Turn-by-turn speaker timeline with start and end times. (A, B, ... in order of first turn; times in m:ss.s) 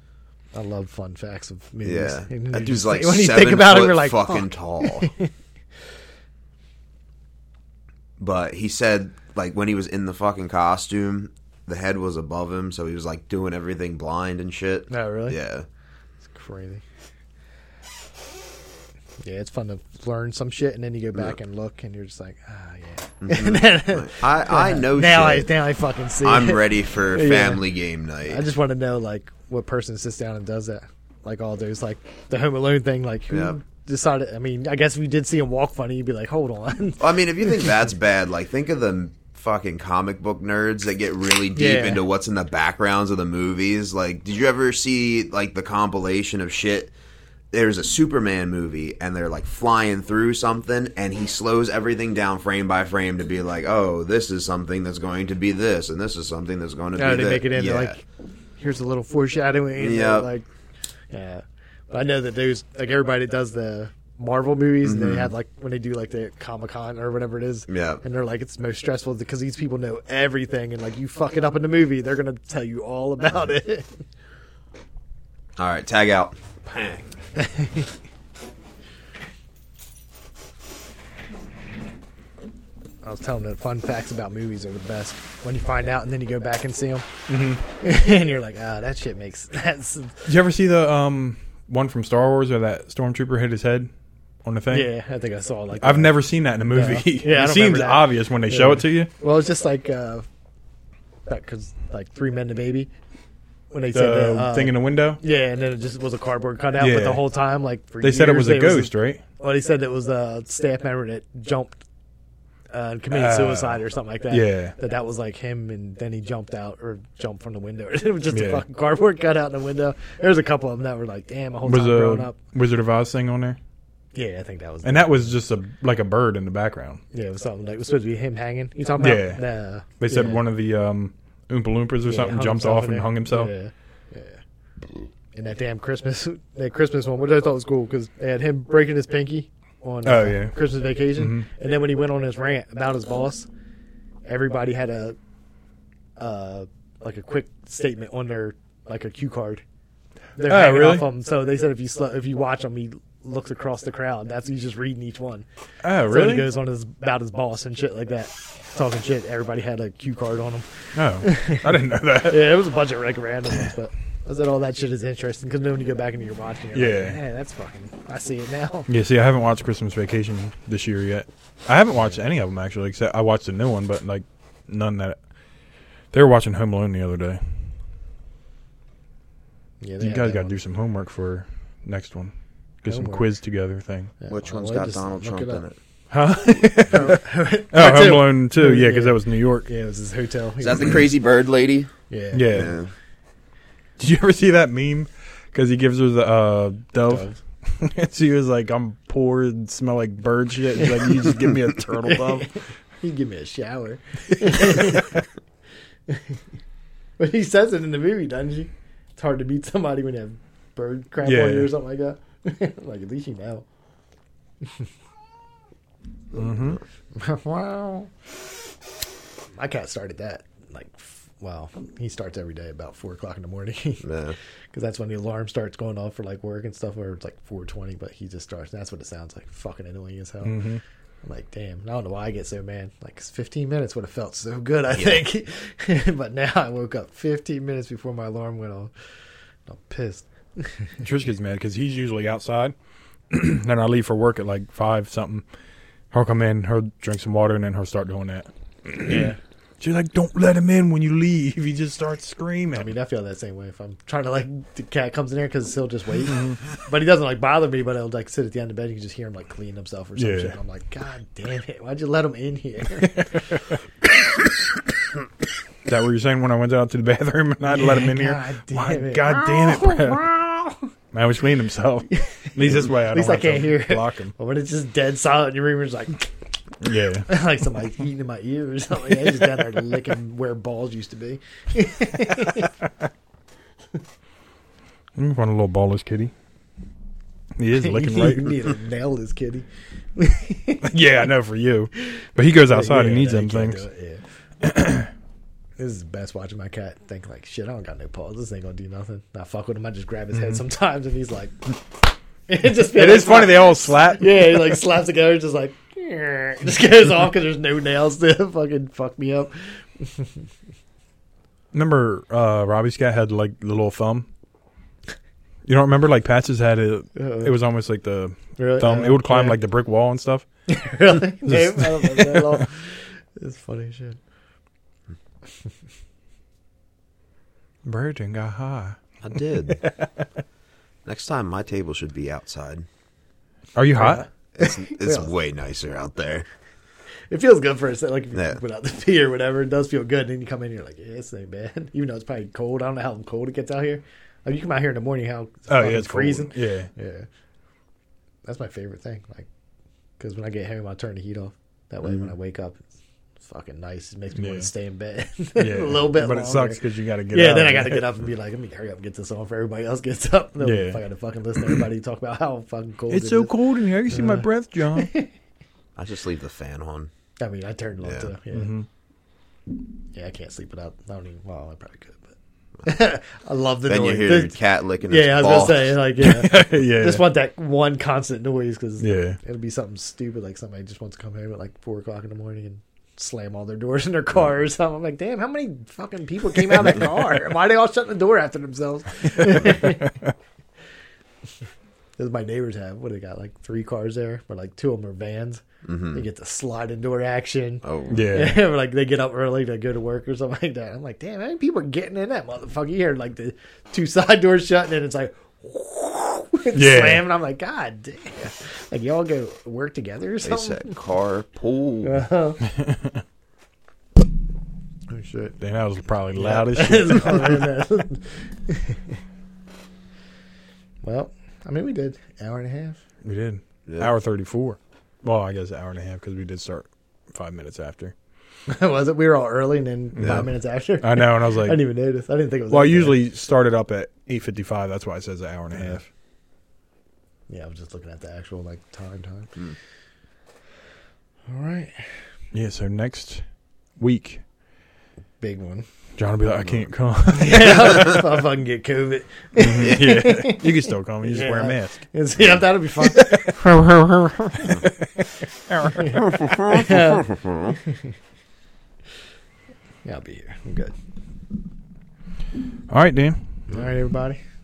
0:00.5-0:05.3 A
0:01.8-0:05.1 B
0:08.2-0:15.6 B
0:14.9-0:15.4 A
0:16.3-0:16.8 A
0:19.2-0:27.6 A
0:23.2-0:25.5 B
0:26.2-0:28.4 B
0:28.2-0:37.7 A
0:33.3-0:33.6 B
0:37.0-0:46.9 B
0:41.6-0:42.0 A
0:47.5-0:58.0 B
0:57.0-0:58.0 A
0:58.6-1:00.5 A
0:59.8-1:00.3 B
1:01.1-1:13.9 A
1:04.8-1:05.3 B
1:07.7-1:08.0 B
1:15.6-1:17.1 B
1:17.4-1:17.9 A
1:23.0-1:27.0 A
1:27.3-1:27.6 C
1:27.8-1:30.3 A
1:30.3-1:33.9 C
1:34.4-1:34.9 C
1:34.7-1:36.2 A
1:35.8-1:39.1 C
1:36.7-1:40.3 A
1:41.3-1:42.9 A
1:43.7-1:51.8 A
1:43.9-1:45.2 C
1:46.8-1:47.3 C
1:48.0-1:49.2 C
1:52.7-2:02.4 A
1:53.1-1:54.7 C
1:58.3-1:58.6 C
2:01.6-2:03.6 C
2:04.1-2:05.3 A
2:04.8-2:07.0 C
2:07.1-2:10.4 A
2:09.0-2:09.4 C
2:10.0-2:13.5 C
2:12.0-2:14.4 A
2:15.3-2:23.5 A
2:20.0-2:20.6 C
2:21.2-2:21.4 C
2:24.3-2:25.2 A
2:26.2-2:29.6 A
2:30.4-2:35.4 A
2:30.5-2:31.1 C
2:35.8-2:36.4 C
2:36.1-2:41.7 A
2:41.0-2:42.6 C
2:42.2-2:48.9 A
2:46.7-2:47.2 C
2:48.9-2:55.2 C
2:56.1-2:57.4 C
2:59.8-3:00.6 A
3:00.0-3:04.1 C
3:02.9-3:03.3 A
3:04.2-3:05.6 A
3:04.3-3:05.8 B
3:06.1-3:09.7 C
3:06.8-3:11.0 A
3:10.6-3:11.9 B
3:12.1-3:12.6 A
3:12.3-3:12.8 C
3:12.5-3:12.9 B
3:14.0-3:22.5 C
3:17.1-3:17.4 A
3:20.8-3:25.2 A
3:24.6-3:25.0 C
3:26.1-3:26.4 A
3:27.2-3:33.6 A
3:31.2-3:31.7 C
3:34.6-3:34.9 A
3:36.3-3:36.8 C
3:37.1-3:38.1 A
3:39.6-3:44.1 A
3:44.0-3:44.4 B
3:44.7-3:50.7 A
3:50.4-3:50.8 C
3:51.2-3:58.9 A
3:54.9-3:55.3 B
3:59.7-4:01.0 A
4:01.0-4:02.7 C
4:03.3-4:05.4 C
4:06.1-4:12.9 C
4:09.0-4:09.4 A
4:12.7-4:23.6 A
4:16.3-4:16.6 C
4:20.2-4:20.6 C
4:23.0-4:23.7 C
4:25.8-4:30.3 C
4:27.7-4:30.8 A
4:31.1-4:34.3 C
4:32.1-4:36.3 A
4:36.8-4:37.3 C
4:37.3-4:42.7 A
4:45.2-4:46.3 C
4:47.6-4:48.6 C
4:47.8-4:50.9 A
4:50.8-4:53.8 C
4:52.6-4:54.2 A
4:54.6-4:55.1 C
4:55.8-5:10.3 A
5:02.8-5:04.8 C
5:11.7-5:14.3 C
5:15.6-5:20.4 C
5:17.1-5:17.5 A
5:18.6-5:19.6 A
5:20.7-5:24.2 A
5:21.4-5:22.6 C
5:27.8-5:29.0 C
5:29.2-5:29.8 B
5:31.0-5:32.8 B
5:33.8-5:34.2 C
5:33.9-5:35.3 A
5:34.6-5:36.5 B
5:37.3-5:47.3 A
5:38.3-5:38.6 B
5:45.7-5:46.9 C
5:48.4-5:49.5 A
5:50.2-5:52.8 A
5:53.4-6:03.5 A
5:54.4-5:54.7 C
5:55.6-5:58.1 C
6:00.6-6:01.0 C
6:03.1-6:05.1 C
6:04.1-6:05.3 A
6:06.0-6:07.1 B
6:07.4-6:08.7 A
6:08.0-6:08.3 B
6:08.5-6:08.9 C
6:10.1-6:30.1 A
6:13.9-6:15.9 B
6:16.2-6:17.2 C
6:19.0-6:19.4 C
6:29.6-6:29.9 C
6:32.2-6:35.6 A
6:35.8-6:36.2 B
6:36.1-6:51.0 A
6:37.8-6:38.2 B
6:38.1-6:38.6 C
6:46.7-6:47.3 C
6:50.4-6:52.2 B
6:52.0-6:52.6 A
6:55.1-6:55.6 A
6:55.6-6:57.6 C
6:56.4-6:59.2 A
7:01.0-7:03.0 A
7:03.2-7:08.1 C
7:03.9-7:04.1 B
7:08.7-7:13.2 A
7:10.2-7:10.5 C
7:10.2-7:10.4 B
7:11.0-7:11.8 C
7:12.7-7:16.0 C
7:17.5-7:19.6 A
7:21.5-7:22.2 A
7:22.5-7:23.4 C
7:24.0-7:24.4 C
7:25.4-7:25.8 A
7:26.2-7:28.0 C
7:27.3-7:30.7 A
7:29.6-7:32.1 C
7:29.8-7:30.0 B
7:31.2-7:34.9 A
7:33.1-7:33.9 C
7:34.7-7:36.4 C
7:36.2-7:37.8 B
7:36.7-7:37.3 A
7:40.0-7:40.9 A
7:42.9-7:43.4 C
7:43.7-7:44.4 A